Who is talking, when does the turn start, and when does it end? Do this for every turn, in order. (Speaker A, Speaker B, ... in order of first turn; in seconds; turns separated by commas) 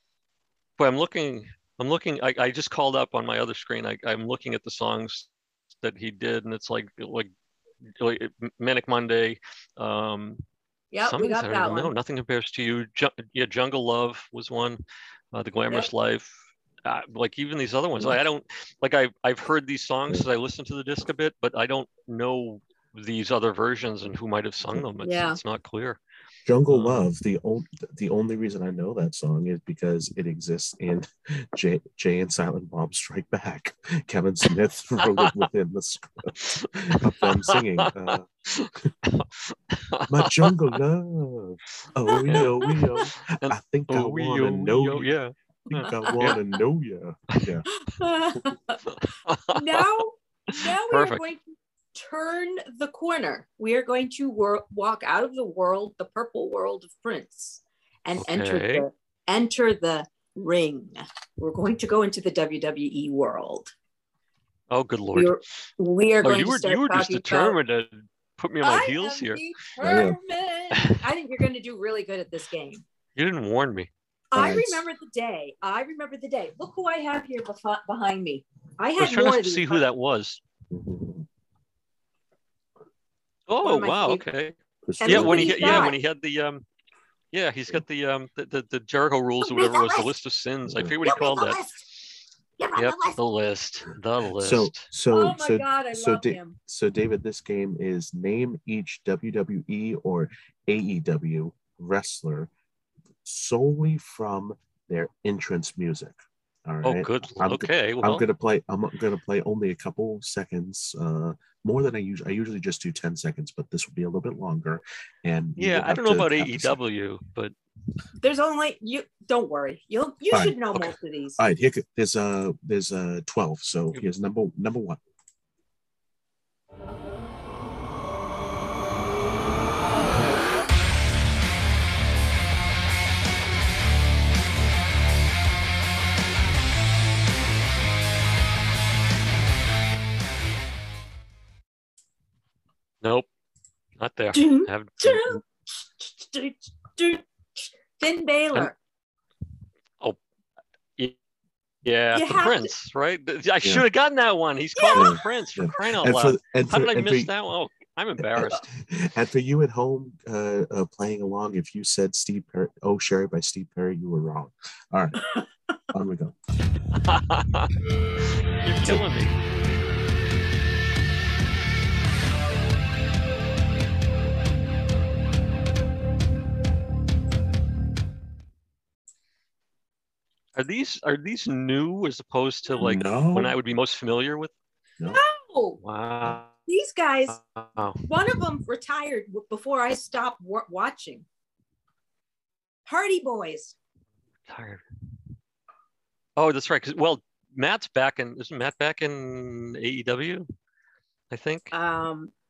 Speaker A: 0.8-5.3, Speaker A: 5.8-7.3, Speaker A: 8.0-10.4, Speaker B: 10.9-11.9, Speaker A: 11.0-14.8, Speaker A: 15.3-26.0, Speaker B: 25.0-25.4, Speaker C: 26.4-38.3, Speaker A: 26.7-27.0, Speaker A: 35.0-35.3, Speaker A: 36.5-40.8, Speaker C: 40.1-45.1, Speaker B: 42.1-42.8, Speaker A: 42.2-46.4, Speaker C: 45.7-47.6, Speaker B: 45.8-46.3, Speaker B: 47.7-48.8, Speaker A: 48.9-49.9, Speaker B: 49.5-63.7, Speaker A: 50.6-51.2, Speaker A: 58.2-58.8, Speaker A: 64.7-65.4, Speaker B: 65.2-67.6, Speaker A: 66.2-69.4, Speaker B: 68.6-72.8, Speaker C: 69.8-70.2, Speaker A: 73.2-73.9, Speaker B: 74.3-79.8, Speaker C: 74.3-74.8, Speaker A: 79.0-80.4, Speaker C: 80.7-81.2, Speaker A: 83.5-86.6, Speaker B: 83.6-84.2, Speaker C: 84.8-85.9, Speaker B: 85.0-86.0, Speaker A: 87.3-91.6, Speaker B: 89.4-90.1, Speaker C: 90.6-91.0, Speaker B: 91.0-91.8, Speaker B: 92.6-93.2, Speaker A: 92.8-94.9, Speaker C: 94.4-102.5, Speaker B: 95.1-96.6, Speaker C: 103.2-116.8, Speaker A: 106.8-108.2, Speaker A: 115.6-117.5, Speaker B: 118.2-121.4, Speaker C: 120.3-125.0, Speaker A: 143.0-143.3, Speaker A: 144.0-145.3, Speaker B: 144.3-148.8, Speaker A: 151.8-158.6, Speaker B: 152.1-152.7, Speaker B: 154.8-155.2, Speaker C: 154.9-157.3, Speaker C: 158.3-165.3, Speaker C: 165.9-166.3, Speaker A: 167.0-167.7, Speaker A: 168.5-169.3, Speaker A: 180.6-184.5, Speaker C: 182.8-183.5, Speaker B: 185.1-185.8, Speaker A: 185.8-186.5, Speaker B: 186.7-187.4, Speaker A: 187.3-188.0, Speaker B: 188.1-191.2, Speaker B: 192.9-193.7, Speaker A: 194.5-194.8, Speaker A: 196.4-200.4, Speaker A: 201.3-201.7, Speaker B: 201.7-202.3